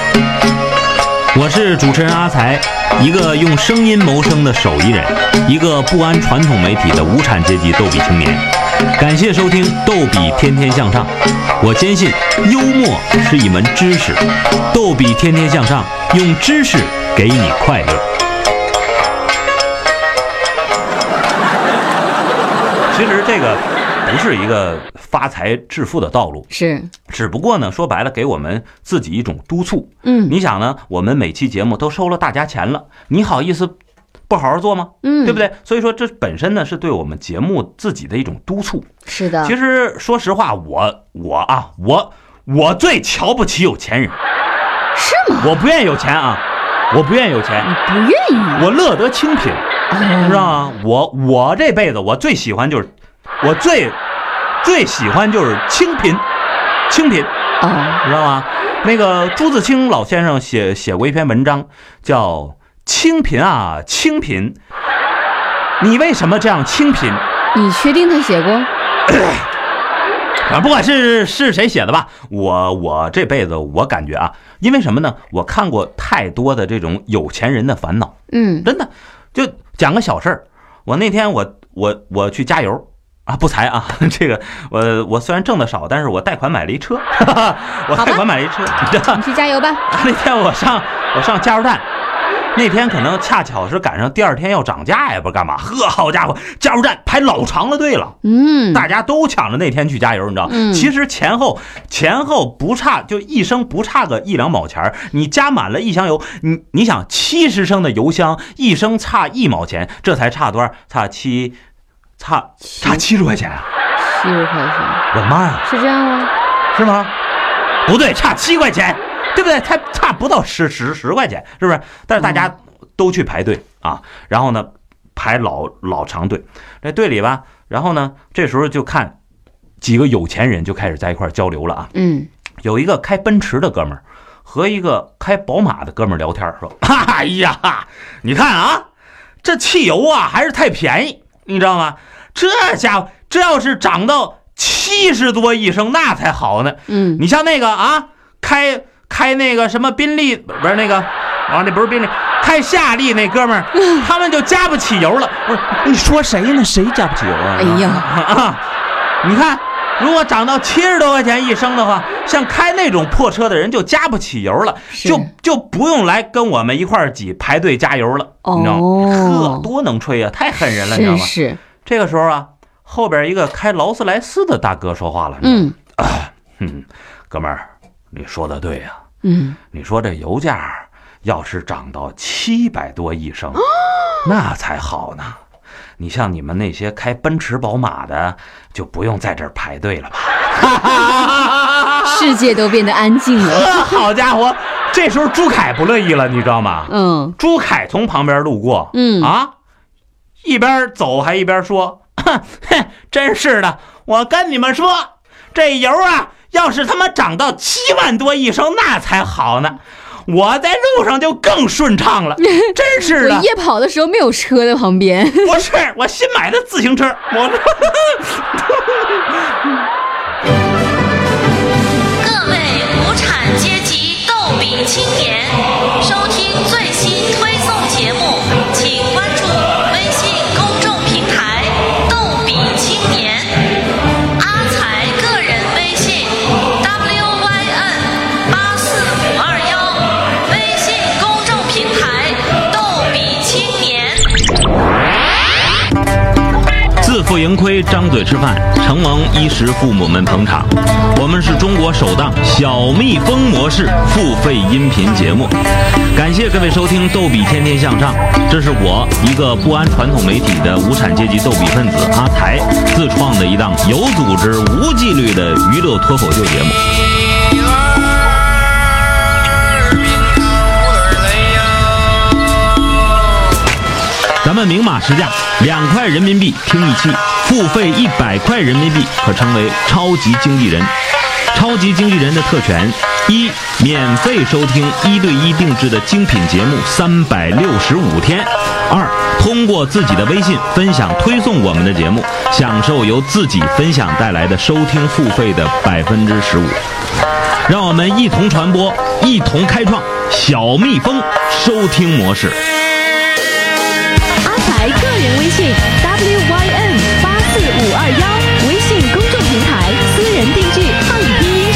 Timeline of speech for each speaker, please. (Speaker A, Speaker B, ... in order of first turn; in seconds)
Speaker A: 1.3-18.1, 22.9-26.5, 27.1-33.7, 34.3-38.9, 39.4-44.2, 45.4-47.7, 48.5-49.6, 50.2-54.0, 54.6-56.2, 56.9-57.3, 58.0-64.6, 65.8-67.2, 69.1-69.5, 70.5-89.2, 89.9-91.8, 92.5-98.2, 98.7-111.6, 112.2-113.7, 115.1-115.6, 116.7-117.1, 117.8-129.2, 129.8-131.9, 132.6-138.8, 139.4-158.6, 159.2-179.0, 179.7-183.6, 184.2-185.4, 186.0-192.4, 193.3-199.5, 200.4-213.5, 215.4-219.2, 247.0-255.6, 256.1-266.8, 274.4-280.9, 281.5-296.8, 297.7-302.6
Speaker B: 26.5-26.9, 30.0-30.3, 35.0-35.4, 39.0-39.5, 44.9-45.5, 47.6-48.6, 49.9-50.5, 57.6-58.0, 67.5-68.7, 78.3-78.7, 87.9-88.2, 89.1-89.8, 98.2-98.9, 100.5-100.9, 112.7-113.0, 114.0-115.0, 115.6-116.3, 122.2-122.5, 131.9-132.3, 146.9-147.2, 157.6-158.1, 164.9-165.3, 168.4-169.7, 170.8-171.6, 175.4-175.7, 179.2-179.6, 192.0-194.0, 196.9-197.4, 198.9-199.3, 212.4-215.6, 304.5-305.8, 308.8-310.3, 310.9-311.3
Speaker C: 222.2-233.6, 234.4-244.3